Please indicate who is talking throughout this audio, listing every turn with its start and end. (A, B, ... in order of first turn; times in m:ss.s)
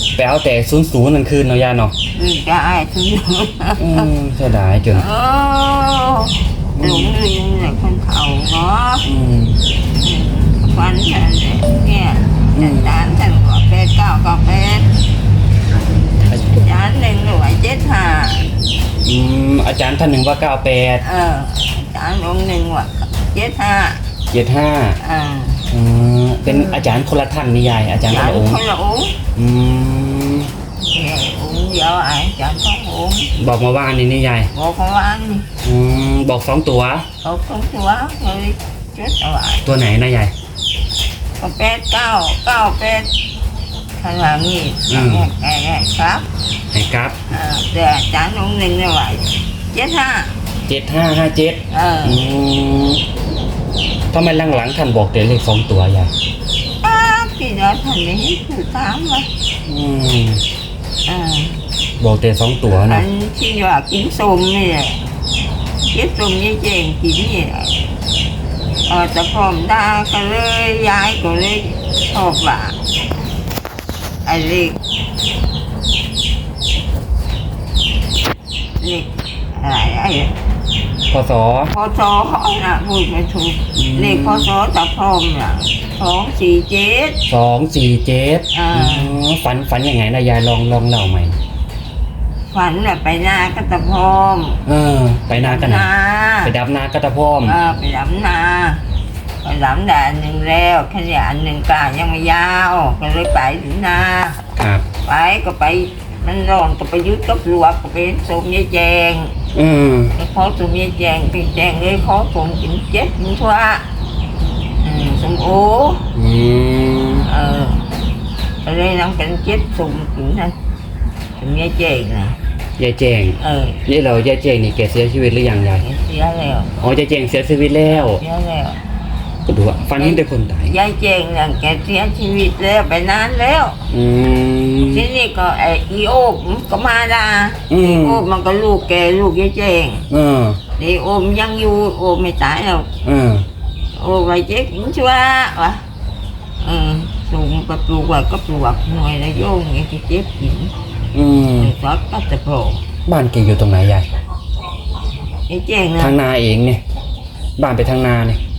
0:00.2-0:01.9 A
0:02.1-0:04.1 B
0:03.8-0:05.0 A
0:04.9-0:09.0 B
0:06.8-0:07.2 A
0:09.0-0:09.6 A
0:10.0-0:14.9 B
0:12.5-0:12.9 A
0:16.3-0:18.5 B
0:19.0-0:21.0 A
0:21.0-0:24.0 B
0:24.3-0:25.0 A
0:25.0-0:25.7 B
0:25.7-0:28.6 A
0:28.1-0:29.2 B
0:29.3-0:30.5 A
0:30.8-0:33.3 B
0:33.4-0:34.5 A
0:34.5-0:35.5 B
0:35.6-0:37.0 A
0:37.2-0:39.6 B
0:39.6-0:40.3 A
0:41.4-0:43.1 B
0:44.0-0:46.3 B
0:44.9-0:45.3 A
0:46.7-0:47.2 A
0:47.3-0:50.4 B
0:50.7-0:53.0 A
0:51.7-0:52.2 B
0:54.1-0:56.1 A
0:56.8-0:59.3 B
0:59.6-1:00.4 A
1:01.0-1:01.6 B
1:02.0-1:03.1 A
1:02.7-1:05.0 B
1:05.9-1:07.8 B
1:08.9-1:12.8 B
1:14.2-1:14.8 B
1:18.8-1:20.3 B
1:21.1-1:21.7 A
1:21.7-1:27.2 B
1:23.8-1:24.5 A
1:27.3-1:31.4 A
1:28.5-1:29.2 B
1:32.5-1:34.6 B
1:34.6-1:35.9 A
1:35.3-1:36.5 B
1:36.4-1:37.6 A
1:37.4-1:38.8 B
1:39.4-1:44.4 B
1:44.6-1:44.8 A
1:45.0-1:49.3 B
1:49.5-1:50.1 A
1:50.2-1:53.8 B
1:54.8-1:56.0 B
1:56.1-1:57.3 A
1:57.2-1:57.8 B
1:58.6-2:00.5 B
2:01.4-2:02.4 B
2:02.8-2:05.8 A
2:03.4-2:03.8 B
2:05.8-2:06.8 B
2:06.8-2:08.2 A
2:07.9-2:08.8 B
2:09.4-2:10.7 A
2:10.0-2:13.8 B
2:13.9-2:15.1 A
2:14.9-2:20.1 B
2:17.7-2:18.2 A
2:20.1-2:20.6 A
2:20.8-2:22.9 B
2:23.0-2:23.4 A
2:23.9-2:25.8 B
2:26.6-2:30.7 B
2:31.1-2:31.7 A
2:31.6-2:32.8 B
2:33.0-2:34.1 A
2:35.5-2:36.2 B
2:36.0-2:36.8 A
2:37.6-2:38.4 A